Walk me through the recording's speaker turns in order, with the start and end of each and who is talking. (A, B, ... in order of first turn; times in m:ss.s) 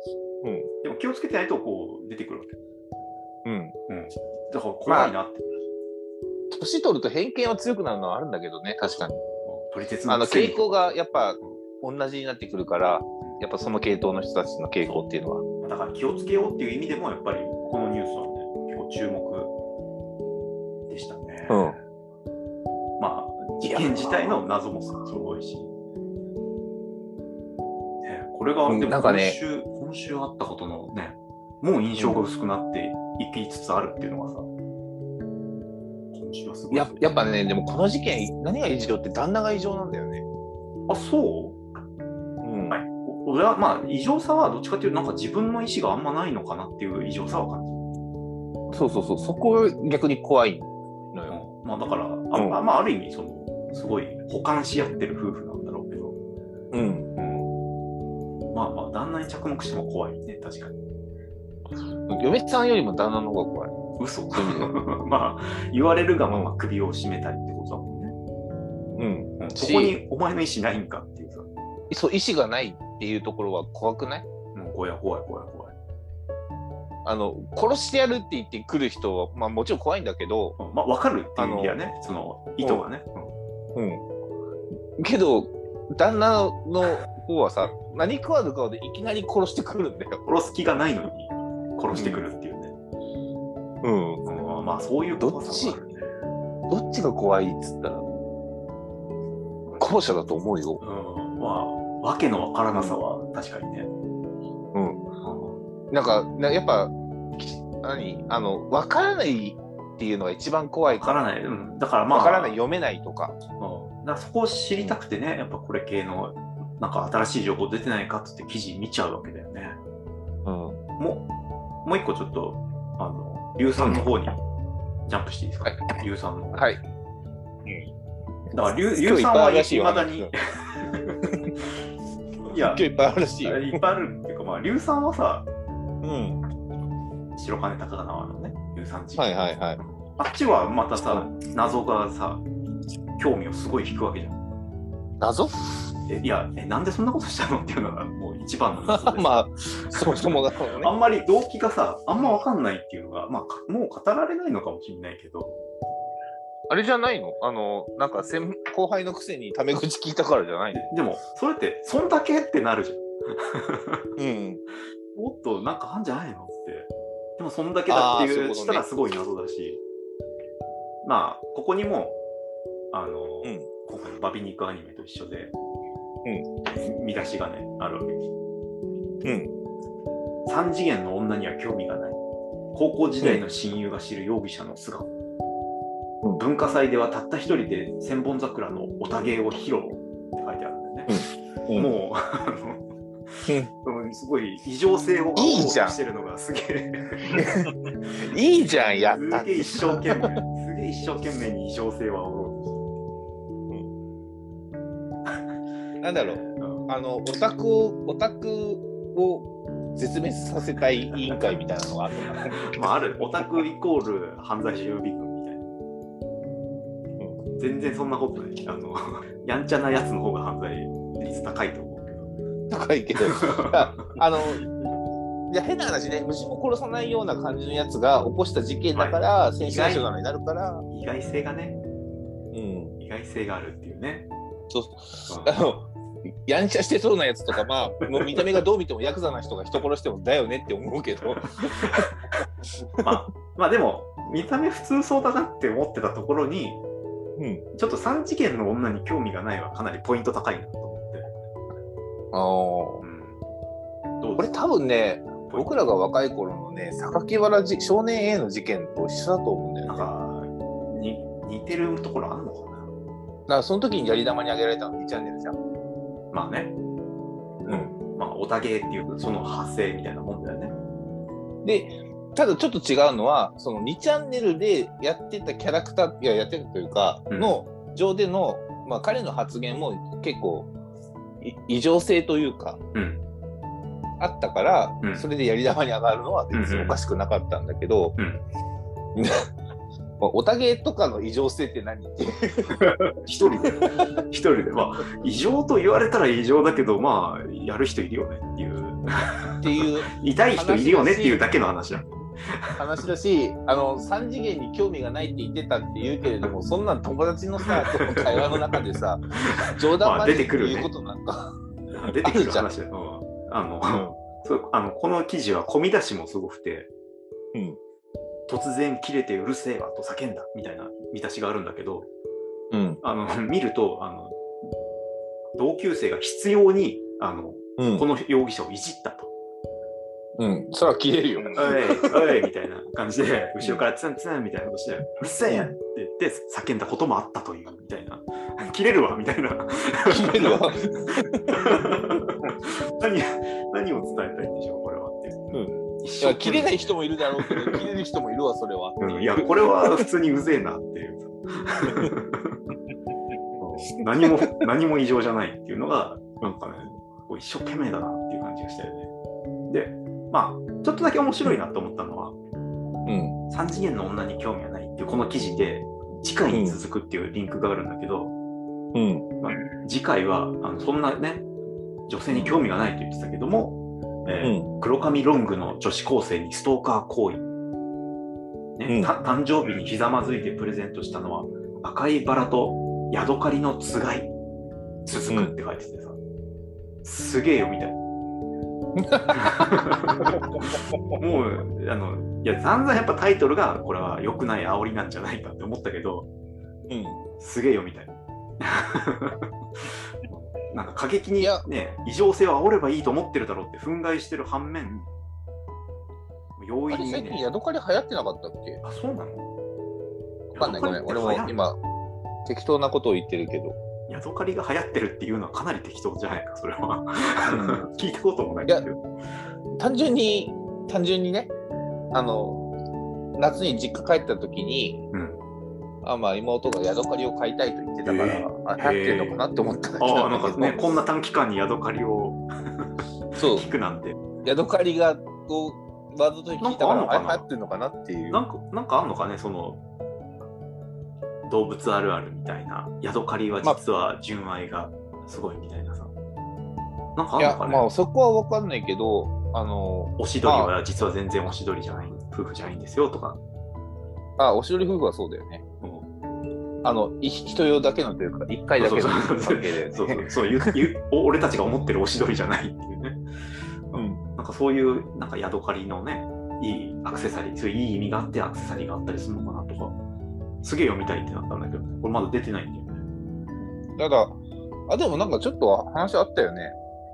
0:00.4-0:00.7 A
0:00.8-0:02.6 B
0:03.4-0:03.8 A
0:03.9-0:05.5 B
0:04.9-0:05.2 A
0:06.5-0:09.2 A
0:09.4-0:11.6 B
0:10.1-0:15.4 A
0:15.6-0:19.5 B
0:20.9-0:21.8 B
0:21.5-0:21.8 A
0:23.0-0:25.7 B
0:23.6-0:24.4 A
0:28.0-0:34.5 B
0:28.7-0:29.4 A
0:36.1-0:37.1 B
0:36.7-0:40.2 A
0:40.9-0:41.8 B
0:42.4-0:42.8 A
0:42.7-0:47.8 B
0:48.7-0:51.4 A
0:51.3-0:56.2 B
0:52.3-0:52.6 A
0:56.7-0:57.1 A
0:57.2-0:57.5 B
0:58.5-1:00.8 B
1:02.1-1:03.7 A
1:04.0-1:08.2 B
1:04.3-1:04.7 A
1:06.3-1:06.5 A
1:09.0-1:10.0 A
1:09.4-1:11.5 B
1:11.9-1:14.3 A
1:14.5-1:15.8 B
1:17.0-1:20.6 A
1:20.6-1:23.3 B
1:21.4-1:21.8 A
1:23.8-1:24.0 A
1:25.0-1:30.3 A
1:30.3-1:32.7 B
1:31.9-1:32.3 A
1:33.8-1:34.2 A
1:34.2-1:36.1 B
1:35.2-1:35.8 A
1:36.7-1:38.0 A
1:39.8-1:40.8 A
1:40.8-1:43.9 B
1:42.7-1:43.0 A
1:44.7-1:45.0 A
1:45.2-1:45.6 B
1:45.9-1:51.3 A
1:50.9-1:52.6 B
1:52.1-1:53.4 A
1:53.6-1:59.8 B
2:00.4-2:00.8 A
2:01.0-2:01.3 B
2:01.8-2:04.4 B
2:03.8-2:04.1 A
2:05.1-2:06.7 B
2:05.6-2:06.0 A
2:06.5-2:06.8 A
2:08.5-2:11.2 B
2:08.9-2:10.3 A
2:11.2-2:11.6 A
2:12.4-2:15.5 B
2:12.6-2:13.8 A
2:16.0-2:16.4 A
2:17.4-2:22.4 B
2:19.2-2:19.8 A
2:21.0-2:21.3 A
2:23.2-2:24.4 B
2:25.2-2:25.6 A
2:26.1-2:29.4 B
2:28.9-2:30.9 A
2:29.9-2:35.6 B
2:36.7-2:40.8 A
2:40.7-2:44.1 B
2:44.2-2:44.6 A
2:45.1-2:49.8 B
2:47.9-2:48.8 A
2:51.0-2:52.2 B
2:52.9-2:55.5 B
2:53.4-2:53.7 A
2:56.7-2:58.3 B
2:59.2-2:59.5 A
3:00.5-3:02.2 B
3:02.7-3:05.1 B
3:06.4-3:12.8 B
3:11.1-3:11.9 A
3:13.5-3:17.4 B
3:15.4-3:16.0 A
3:17.3-3:20.4 A
3:19.1-3:22.7 B
3:26.0-3:32.9 A
3:26.1-3:26.9 B
3:31.1-3:31.5 B
3:32.4-3:35.7 B
3:37.6-3:42.3 B
3:42.7-3:44.7 A
3:43.3-3:44.2 B
3:45.5-3:50.8 A
3:48.9-3:50.1 B
3:50.9-3:51.8 B
3:52.5-3:53.0 A
3:53.0-3:54.3 B
3:54.7-3:55.9 A
3:55.3-3:55.7 B
3:56.5-4:02.1 A
3:58.1-3:58.6 B
4:01.7-4:02.1 B
4:03.0-4:03.3 A
4:03.0-4:06.8 B
4:07.4-4:07.6 A
4:07.8-4:11.3 B
4:12.3-4:13.0 A
4:13.0-4:13.4 B
4:14.2-4:14.5 B
4:14.4-4:20.1 A
4:15.5-4:15.9 B
4:19.9-4:22.9 B
4:23.5-4:25.6 A
4:26.3-4:26.8 B
4:27.6-4:30.7 B
4:27.7-4:27.9 A
4:31.6-4:40.7 A
4:37.3-4:37.6 B
4:41.4-4:42.8 A
4:42.9-4:43.2 B
4:44.2-4:48.2 A
4:46.5-4:47.0 B
4:48.2-4:48.4 B
4:49.2-4:49.5 A
4:50.2-4:53.0 A
4:52.8-5:02.8 B
4:53.6-4:54.0 A
4:59.6-5:01.5 A
5:02.8-5:12.7 A
5:07.6-5:08.8 B
5:09.4-5:10.9 B
5:11.9-5:16.9 B
5:13.9-5:14.2 A
5:17.5-5:17.8 A
5:18.5-5:22.1 B
5:22.7-5:23.0 A
5:23.0-5:24.4 B
5:25.5-5:29.3 B
5:27.8-5:28.1 A
5:30.4-5:32.4 A
5:31.6-5:47.9 B
5:35.5-5:35.7 A
5:40.1-5:42.3 A
5:45.5-5:50.1 A
5:49.0-5:52.6 B
5:51.8-5:52.1 A
5:53.6-5:59.1 B
5:53.9-5:54.6 A
5:59.7-6:02.4 B
6:03.1-6:03.4 A
6:03.5-6:08.3 B
6:06.5-6:06.8 A
6:08.9-6:09.3 A
6:09.4-6:11.5 B
6:12.1-6:17.4 B
6:12.3-6:12.6 A
6:14.4-6:14.7 A
6:18.8-6:24.3 B
6:18.9-6:19.1 A
6:25.1-6:26.2 B
6:27.0-6:28.0 B
6:29.0-6:29.5 A
6:29.3-6:36.3 B
6:36.9-6:37.2 A
6:37.4-6:45.1 B
6:46.6-6:47.4 B
6:46.9-6:48.8 A
6:48.8-6:49.5 B
6:50.5-6:51.6 B
6:50.6-6:51.8 A
6:52.4-6:53.8 A
6:54.1-6:59.0 B
6:57.4-6:57.9 A
6:59.8-7:01.5 A
7:02.1-7:02.7 A
7:03.4-7:05.0 A
7:05.1-7:05.4 B
7:06.0-7:10.8 A
7:08.0-7:09.4 B
7:10.0-7:14.2 B
7:13.4-7:13.7 A
7:14.4-7:18.4 A
7:16.6-7:17.5 B
7:18.3-7:19.8 B
7:21.5-7:26.1 B
7:27.2-7:27.9 B
7:27.4-7:30.7 A
7:30.2-7:33.4 B
7:34.4-7:35.6 A
7:35.8-7:36.1 B
7:36.8-7:40.8 A
7:38.8-7:43.2 B
7:43.9-7:50.0 B
7:43.9-7:44.2 A
7:50.6-7:53.0 B
7:54.0-7:56.8 A